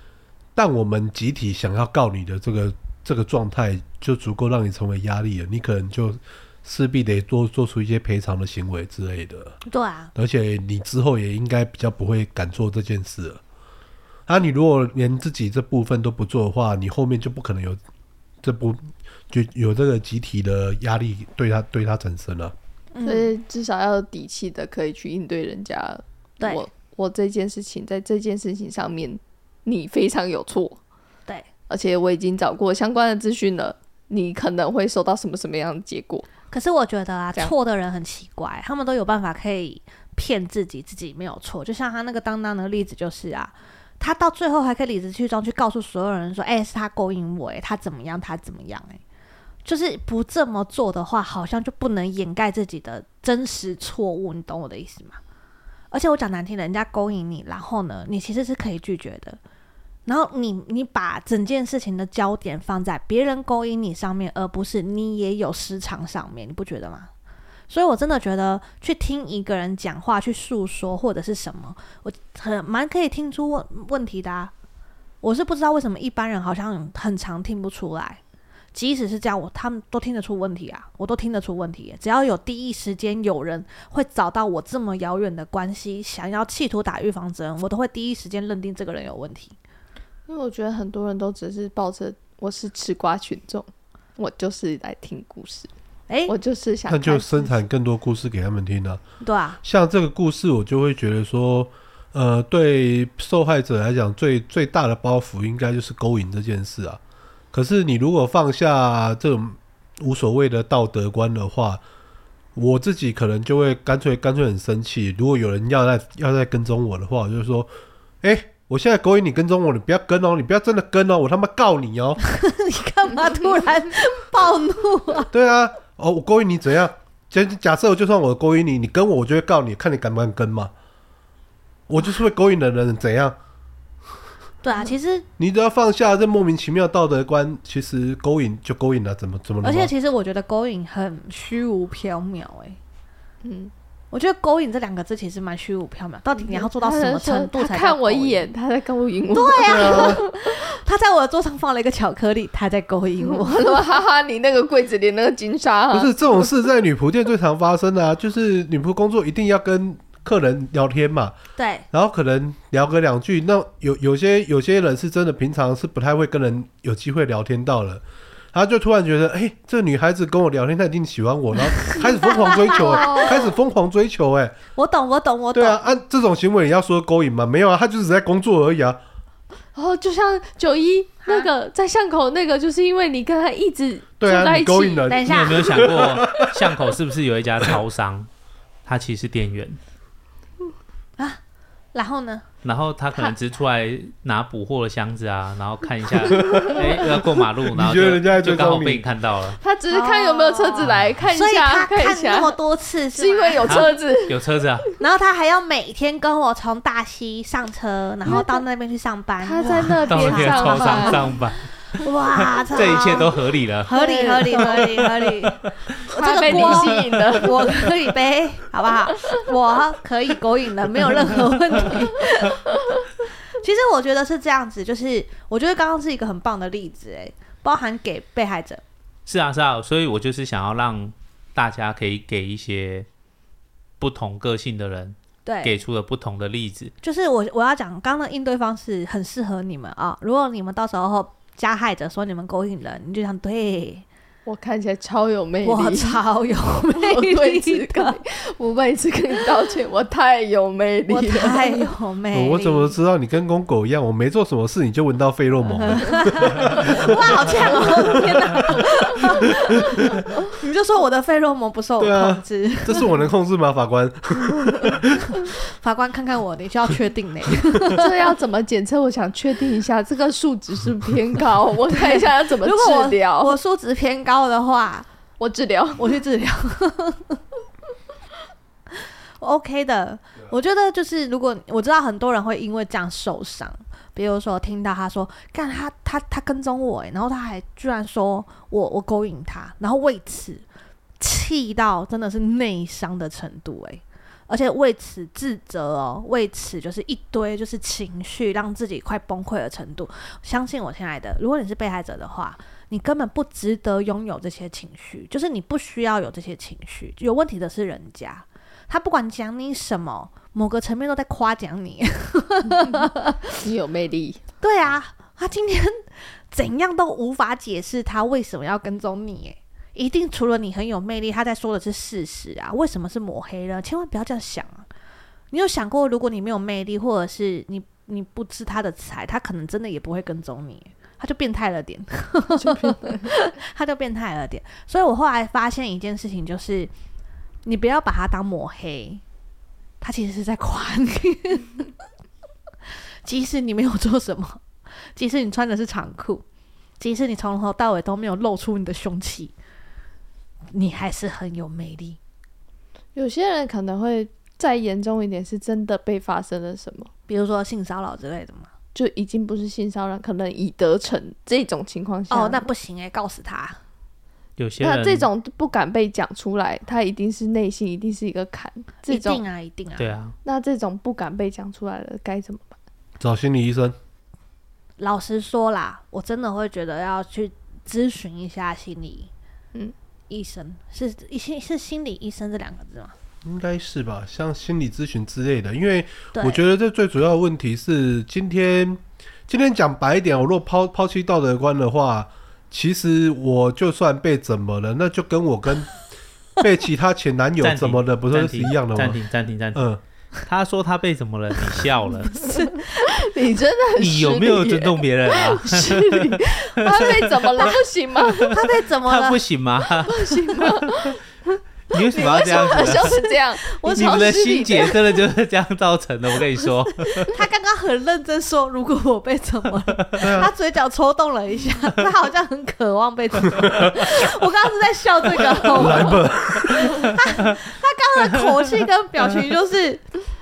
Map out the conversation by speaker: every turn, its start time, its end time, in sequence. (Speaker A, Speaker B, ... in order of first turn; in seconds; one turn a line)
Speaker A: 0.6-9.6
Speaker B: 9.7-10.1
Speaker A: 10.1-13.4
Speaker A: 14.3-17.8
Speaker A: 18.4-22.5
Speaker B: 22.9-23.3
Speaker C: 23.0-30.8
Speaker B: 26.4-26.6
Speaker C: 31.7-36.3
Speaker B: 36.5-49.0
Speaker B: 49.6-55.2
Speaker B: 55.9-59.4
Speaker B: 60.0-67.1
Speaker B: 67.7-74.5
Speaker B: 75.2-78.2
Speaker B: 78.7-89.5
Speaker C: 90.3-95.7
Speaker B: 96.1-96.3
Speaker C: 96.3-97.6
Speaker A: 96.9-99.0
Speaker B: 99.2-99.6
Speaker A: 99.6-107.0
Speaker A: 107.5-111.8
Speaker A: 112.5-117.7
Speaker A: 118.2-122.2
Speaker B: 122.2-125.3
Speaker A: 125.3-130.7
Speaker A: 131.9-133.3
Speaker B: 134.6-135.2
Speaker A: 135.4-139.9
Speaker B: 139.6-142.8
Speaker C: 143.4-143.7
Speaker B: 144.1-148.5
Speaker C: 146.4-150.5
Speaker B: 149.3-153.8
Speaker A: 149.7-150.2
Speaker C: 153.2-156.5
Speaker A: 155.9-161.3
Speaker B: 161.6-161.8
Speaker A: 161.9-174.6
Speaker B: 171.8-173.3
Speaker C: 172.7-173.4
Speaker B: 174.8-175.8
Speaker A: 175.5-179.0
Speaker C: 179.7-185.1
Speaker A: 184.2-186.7
Speaker B: 185.1-185.7
Speaker D: 185.2-188.3
Speaker D: 188.8-189.8
Speaker B: 191.9-192.4
Speaker D: 192.6-199.6
Speaker A: 196.3-197.0
Speaker C: 196.5-196.8
Speaker A: 197.7-199.1
Speaker C: 199.6-202.6
Speaker B: 199.9-203.9
Speaker C: 203.1-204.9
Speaker D: 203.7-204.9
Speaker B: 205.0-211.4
Speaker C: 208.2-208.6
Speaker C: 209.4-211.3
Speaker D: 209.6-211.7
Speaker B: 212.0-222.7
Speaker D: 212.7-215.7
Speaker C: 212.8-213.2
Speaker C: 213.9-215.0
Speaker C: 216.1-217.9
Speaker D: 216.5-217.3
Speaker B: 223.6-228.8
Speaker D: 229.2-233.1
Speaker D: 234.0-236.9
Speaker B: 235.4-235.8
Speaker B: 237.0-244.0
Speaker C: 244.4-246.2
Speaker B: 245.6-248.2
Speaker C: 246.9-251.9
Speaker B: 251.1-252.9
Speaker A: 252.3-257.1
Speaker B: 255.7-263.1
Speaker A: 262.0-265.3
Speaker B: 265.5-268.2
Speaker C: 267.9-273.6
Speaker B: 271.9-275.1
Speaker C: 275.4-276.1
Speaker B: 276.0-277.4
Speaker B: 279.4-290.6
Speaker B: 291.2-313.4
Speaker C: 313.6-314.4
Speaker B: 314.6-324.9
Speaker B: 325.5-336.9
Speaker C: 332.6-333.3
Speaker B: 337.6-339.2
Speaker B: 340.0-341.9
Speaker B: 343.2-344.6
Speaker B: 345.1-346.4
Speaker B: 347.0-349.5
Speaker B: 350.7-352.2
Speaker C: 353.1-357.1
Speaker B: 357.3-358.7
Speaker C: 358.9-362.7
Speaker B: 362.3-363.8
Speaker D: 364.6-365.3
Speaker C: 364.8-369.4
Speaker B: 369.1-370.2
Speaker D: 370.0-370.3
Speaker C: 370.4-372.7
Speaker A: 373.2-373.9
Speaker B: 375.0-379.3
Speaker B: 380.3-383.1
Speaker A: 383.4-396.0
Speaker B: 386.3-386.6
Speaker A: 396.6-399.2
Speaker D: 397.6-399.8
Speaker A: 399.7-400.0
Speaker D: 400.4-402.4
Speaker B: 402.2-403.1
Speaker C: 402.4-408.6
Speaker D: 404.0-407.7
Speaker B: 408.5-409.4
Speaker D: 409.1-411.1
Speaker C: 410.0-415.2
Speaker D: 411.9-413.2
Speaker B: 412.5-414.3
Speaker D: 413.9-417.3
Speaker B: 417.2-430.1
Speaker A: 420.2-420.5
Speaker A: 425.7-427.1